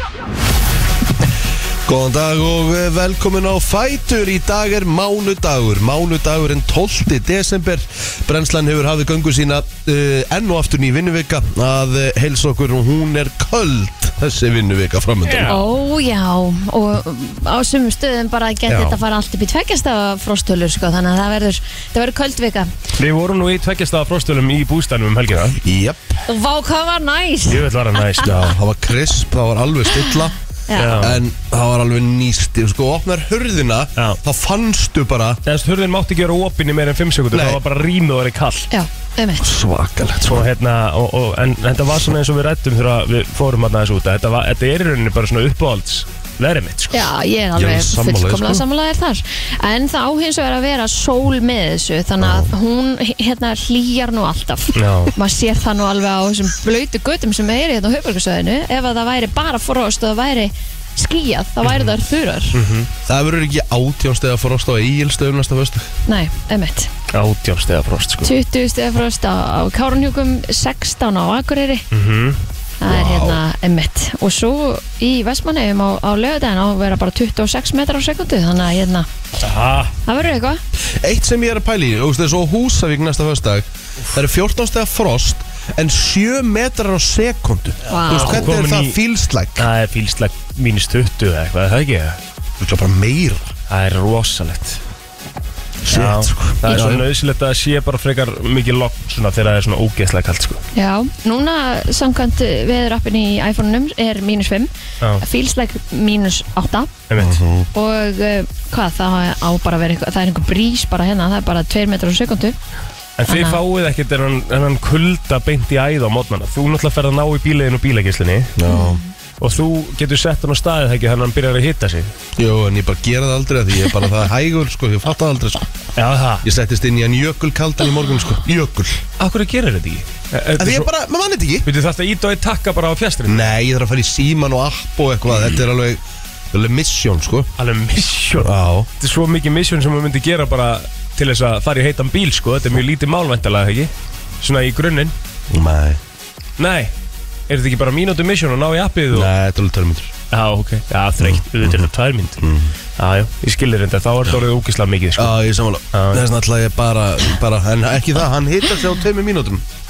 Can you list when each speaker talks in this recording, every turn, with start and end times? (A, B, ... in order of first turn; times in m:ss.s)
0:01.9-0:15.6 A
0:15.2-0:15.6 B
0:15.5-0:22.7 C
0:18.7-0:19.0 A
0:23.0-0:25.6 B
0:25.6-0:26.2 A
0:26.3-0:28.2 C
0:27.5-0:28.3 B
0:28.2-0:30.4 A
0:30.7-0:31.1 C
0:30.7-0:31.2 B
0:30.9-0:35.4 A
0:35.5-0:38.7 B
0:37.3-0:37.6 A
0:38.7-0:39.5 C
0:39.4-0:40.5 A
0:40.2-0:47.1 B
0:46.9-1:02.6 C
0:47.6-0:48.7 A
0:52.2-0:52.5 A
0:54.7-0:55.1 B
1:01.6-1:02.0 B
1:02.5-1:02.9 B
1:03.0-1:05.9 A
1:06.1-1:06.9 C
1:07.1-1:08.3 B
1:08.2-1:11.9 C
1:11.9-1:12.4 B
1:12.8-1:19.1 C
1:12.8-1:13.4 A
1:19.4-1:20.0 B
1:20.0-1:20.6 C
1:20.8-1:29.7 A
1:27.9-1:28.5 C
1:27.9-1:29.0 B
1:29.6-1:32.2 B
1:32.6-1:33.5 A
1:33.7-1:34.8 B
1:35.8-1:37.1 A
1:35.9-1:40.6 B
1:40.8-1:46.9 C
1:47.1-1:47.4 B
1:47.2-1:47.7 A
1:47.7-1:52.6 C
1:53.2-1:58.6 B
1:53.3-1:53.6 C
1:58.6-1:59.0 A
1:58.7-1:59.1 C
1:59.4-2:02.1 B
2:02.4-2:05.7 A
2:06.0-2:06.5 B
2:06.4-2:09.0 A
2:09.2-2:10.9 B
2:10.6-2:11.7 A
2:11.6-2:13.5 B
2:13.3-2:17.5 A
2:17.6-2:25.1 B
2:18.3-2:18.9 A
2:25.5-2:26.0 A
2:26.6-2:26.9 B
2:27.5-2:29.3 B
2:29.1-2:30.1 A
2:30.3-2:32.5 B
2:31.2-2:32.8 A
2:33.0-2:35.4 B
2:35.2-2:39.6 A
2:35.9-2:36.2 B